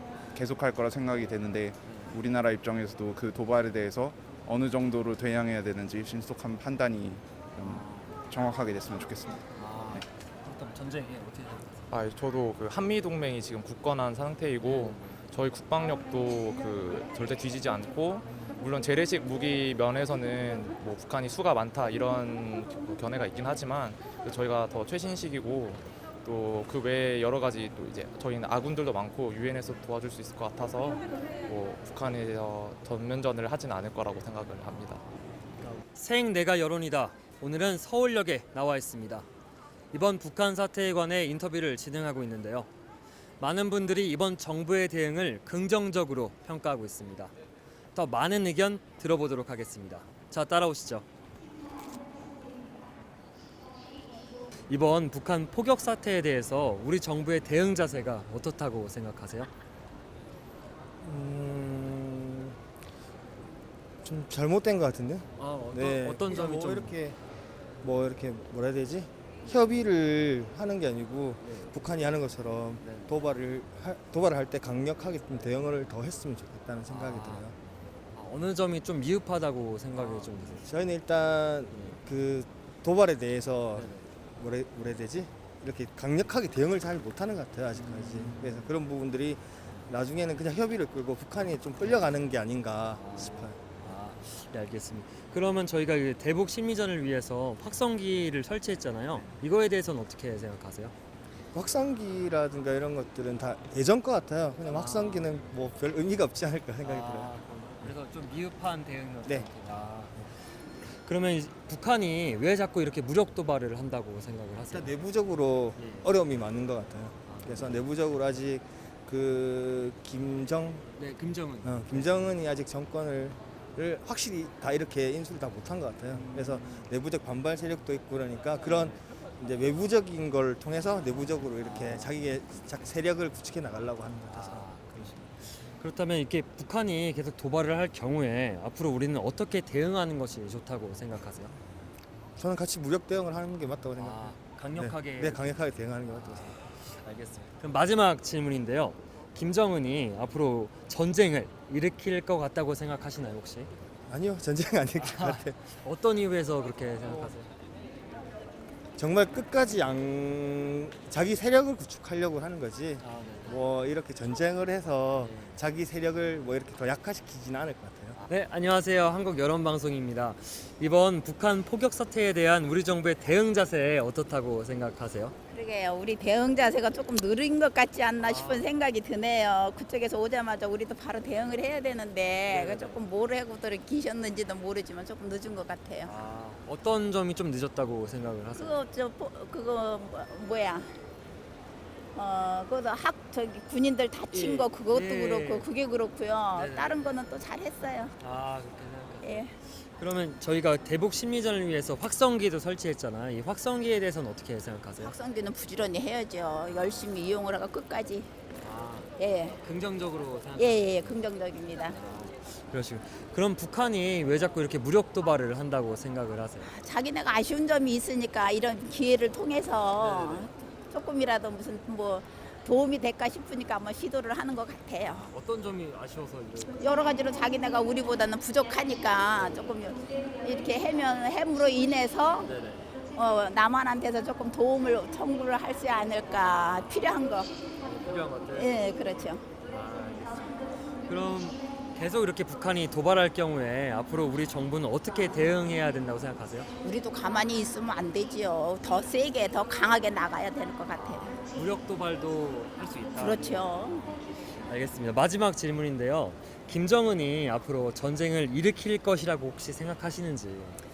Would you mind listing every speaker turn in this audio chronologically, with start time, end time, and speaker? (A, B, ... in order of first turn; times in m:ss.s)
0:00.3-0:09.4 A
0:01.8-0:02.2 B
0:07.6-0:08.2 B
0:09.5-0:11.9 B
0:11.9-0:35.0 C
0:14.6-0:15.2 B
0:18.3-0:18.6 B
0:35.6-0:39.2 B
0:39.9-0:42.7 B
0:43.4-0:47.3 B
0:47.9-0:51.0 B
0:54.7-0:59.5 B
1:01.0-1:02.5 D
1:04.0-1:07.2 D
1:05.3-1:07.0 B
1:07.8-1:17.5 D
1:11.4-1:11.7 B
1:12.8-1:13.1 B
1:16.9-1:20.7 B
1:20.0-1:33.6 D
1:21.7-1:22.0 B
1:23.7-1:24.1 B
1:27.7-1:28.7 B
1:32.9-1:40.9 B
1:41.5-1:47.3 D
1:44.6-1:45.4 B
1:46.8-1:54.9 B
1:54.6-2:00.9 D
1:55.8-1:56.1 B
1:57.2-1:57.8 B
2:01.0-2:02.4 B
2:01.6-2:15.1 D
2:06.1-2:06.9 B
2:08.6-2:09.0 B
2:11.6-2:12.2 B
2:14.3-2:21.5 B
2:22.4-2:26.6 D
2:24.0-2:33.7 B
2:34.1-2:35.6 D
2:35.0-2:37.5 B
2:39.0-2:48.2 D
2:43.0-2:43.6 B
2:45.2-2:45.6 B
2:48.2-2:55.3 B
2:55.5-3:06.1 E
2:58.2-2:58.7 B
3:02.5-3:03.0 B
3:06.0-3:08.8 B
3:08.6-3:11.0 E
3:12.1-3:18.1 E
3:14.3-3:15.6 B
3:16.6-3:17.1 B
3:18.2-3:25.1 B
3:19.2-3:19.5 E
3:25.0-3:28.3 E
3:28.6-3:31.2 B
3:29.2-3:29.6 E
3:30.6-3:31.9 E
3:31.9-3:36.7 B
3:36.6-3:45.2 E
3:40.0-3:40.5 B
3:45.1-3:46.8 B
3:46.8-3:52.5 E
3:52.4-3:52.9 B
3:53.2-3:57.5 E
3:57.8-3:58.8 B
3:58.5-3:59.4 E
3:59.6-4:06.7 B
4:06.8-4:11.4 E
4:11.0-4:20.8 B
4:13.2-4:14.0 E